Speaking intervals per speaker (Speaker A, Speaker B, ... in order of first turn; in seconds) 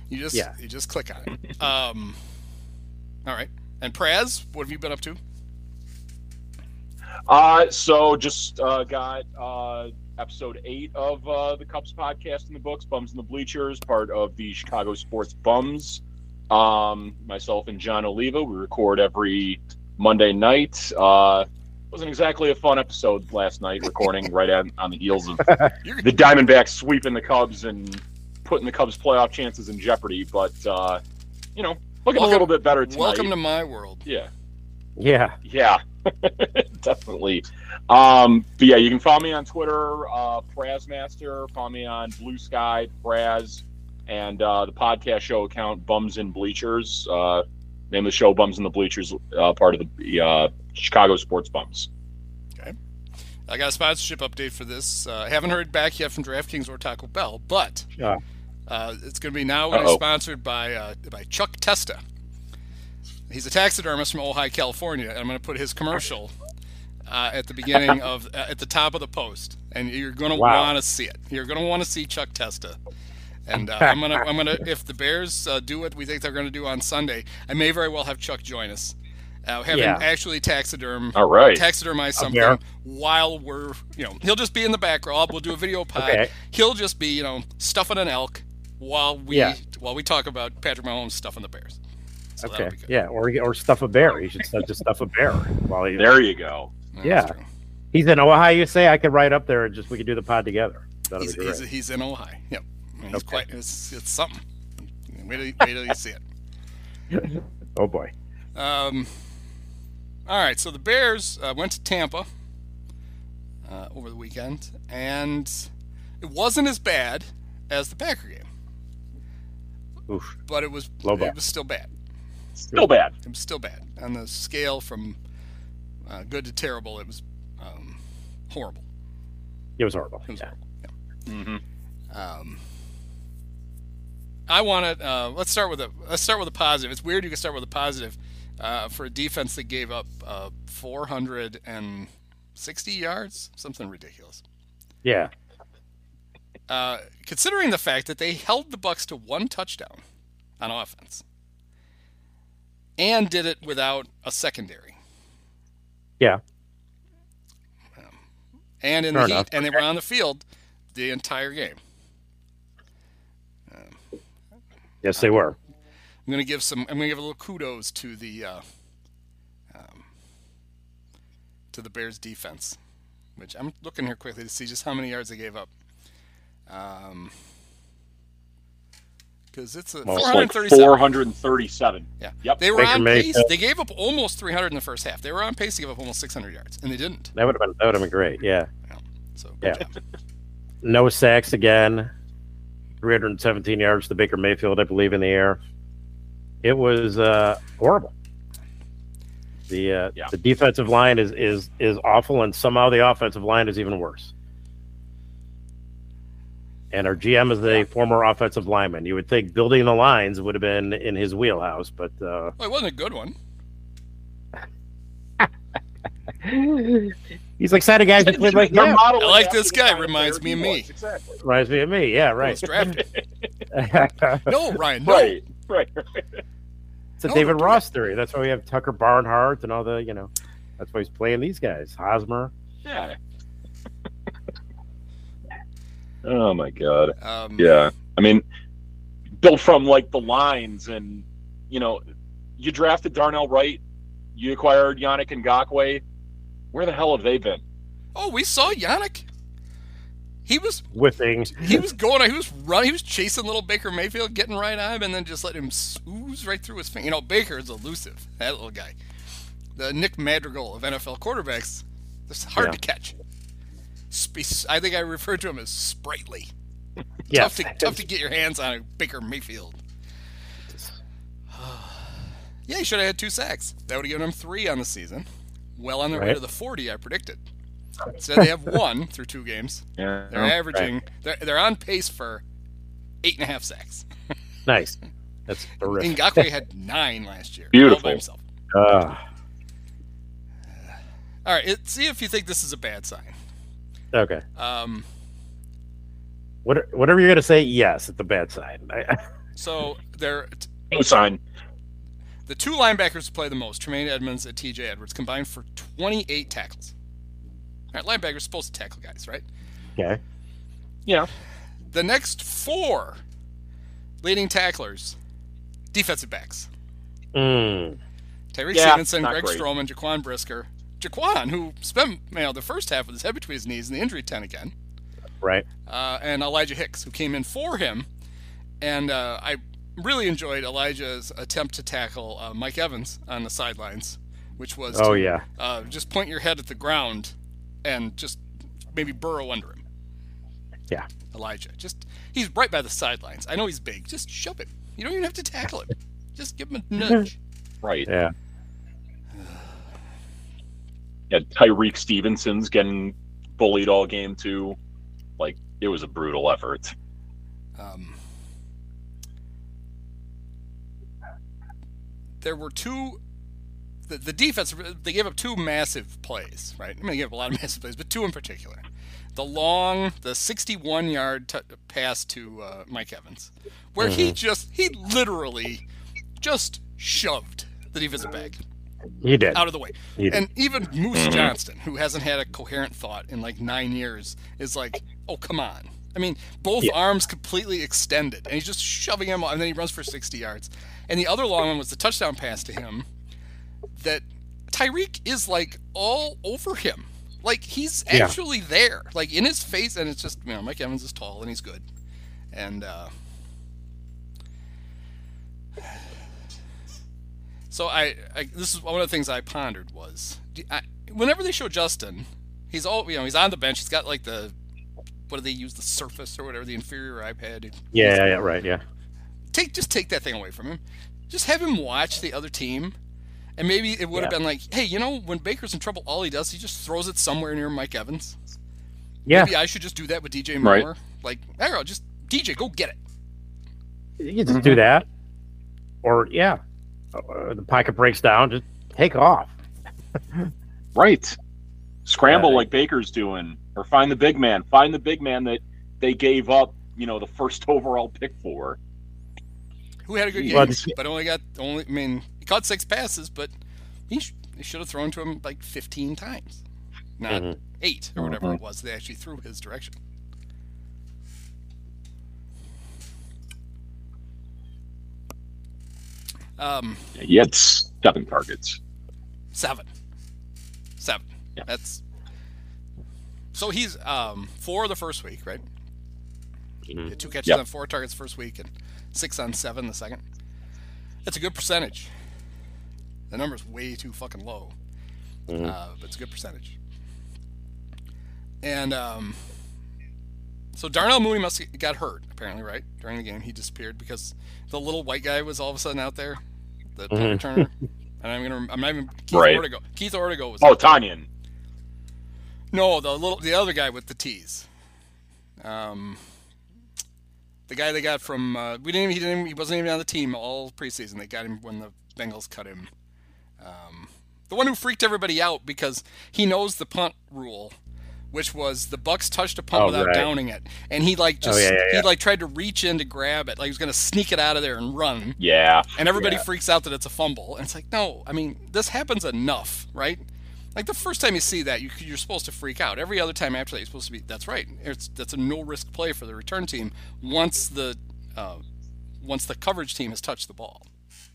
Speaker A: 0.1-2.2, 3.3-5.2, 32.1-34.0, 53.5-57.9, 58.7-62.0, 63.3-66.3, 67.1-72.8, 73.5-91.8, 92.4-92.9, 96.9-97.5, 101.2-106.2, 108.6-109.3, 110.3-112.3, 113.7-115.7, 116.2-118.5, 120.5-121.9, 123.2-125.2, 126.1-128.9, 130.3-130.9, 132.1-132.6, 134.5-144.4, 146.7-150.0, 150.6-151.2, 153.0-155.0, 158.8-161.8, 163.7-164.0, 166.3-168.7, 169.7-170.1, 171.7-172.8, 173.4-175.7, 176.7-177.3, 179.5-181.0, 182.2-187.3, 188.9-189.9, 212.6-213.4, 219.0-220.9, 222.4-223.0, 224.4-225.4, 227.2-227.8, 237.2-237.8, 248.2-249.3, 250.5-250.8, 251.6-259.0, 259.8-263.2, 264.1-266.5, 267.3-269.8, 271.5-275.3, 275.8-277.4, 278.1-282.4, 283.2-284.1, 285.8-288.4, 290.8-293.4, 294.6-295.1, 299.6-300.7, 302.5-306.9, 307.9-309.4, 311.9-313.2, 314.2-315.2, 315.9-316.7, 318.5-324.7, 325.9-328.1, 328.8-339.8, 341.3-347.4, 357.8-358.2, 362.4-363.2, 364.1-368.8, 369.4-375.8, 376.4-378.6, 379.6-393.1, 393.9-401.9, 402.5-403.1, 407.7-414.6, 415.3-418.4, 419.5-423.0, 423.6-428.4, 429.3-433.0, 450.1-453.5, 454.1-456.6, 457.2-460.0, 466.6-467.1, 469.5-469.9, 471.0-472.0, 473.5-475.6, 477.1-480.2, 481.3-482.1, 483.3-484.8, 485.6-486.8, 488.6-489.5, 490.8-496.4, 496.9-501.0, 502.7-504.7, 505.6-506.3, 507.7-512.9, 513.6-517.8, 518.3-525.4, 526.0-530.2, 530.8-538.6, 539.2-540.9
Speaker B: 7.3-31.0, 31.6-33.3, 35.5-51.9, 59.7-60.0, 81.2-81.6, 95.9-96.7, 122.6-123.1, 131.3-131.6, 180.1-182.6, 218.2-221.4, 222.8-223.2, 225.1-226.2, 232.8-233.2, 236.2-238.4, 239.4-242.0, 242.6-243.8, 244.3-246.0, 246.7-247.6, 280.0-280.5, 287.7-288.2, 300.9-301.4, 318.7-319.6, 351.3-354.8, 355.4-356.9, 381.1-381.5, 434.5-434.8, 441.0-441.4, 442.1-448.8, 450.4-450.9, 467.2-468.8, 499.3-499.6, 500.6-501.3, 525.4-525.9
Speaker C: 35.0-35.4, 70.3-70.7, 79.7-80.0, 82.2-82.6, 86.0-86.3, 89.3-89.6, 92.4-96.2, 97.0-97.3, 97.9-101.6, 103.1-103.4, 107.1-108.1, 120.1-120.3, 121.0-121.3, 129.8-130.5, 145.0-145.3, 159.1-159.6, 165.0-165.6, 182.8-183.5, 187.3-188.7, 190.8-192.1, 193.0-195.6, 196.6-198.1, 199.7-204.3, 206.9-212.5, 216.4-219.0, 221.4-223.0, 223.7-224.5, 227.2-232.5, 250.9-251.8, 267.3-267.9, 270.7-271.0, 284.7-285.0, 285.5-286.4, 288.7-289.2, 294.1-294.4, 296.6-299.2, 317.3-318.0, 334.9-335.4, 348.1-348.3, 374.0-374.4, 379.2-379.6, 380.2-380.4, 417.9-418.8, 429.3-429.5, 434.2-435.1, 436.0-436.6, 437.1-439.5, 442.3-442.7, 450.5-450.9, 457.3-457.6, 485.5-485.7, 497.1-497.6, 519.7-520.3, 521.4-522.1, 526.2-526.4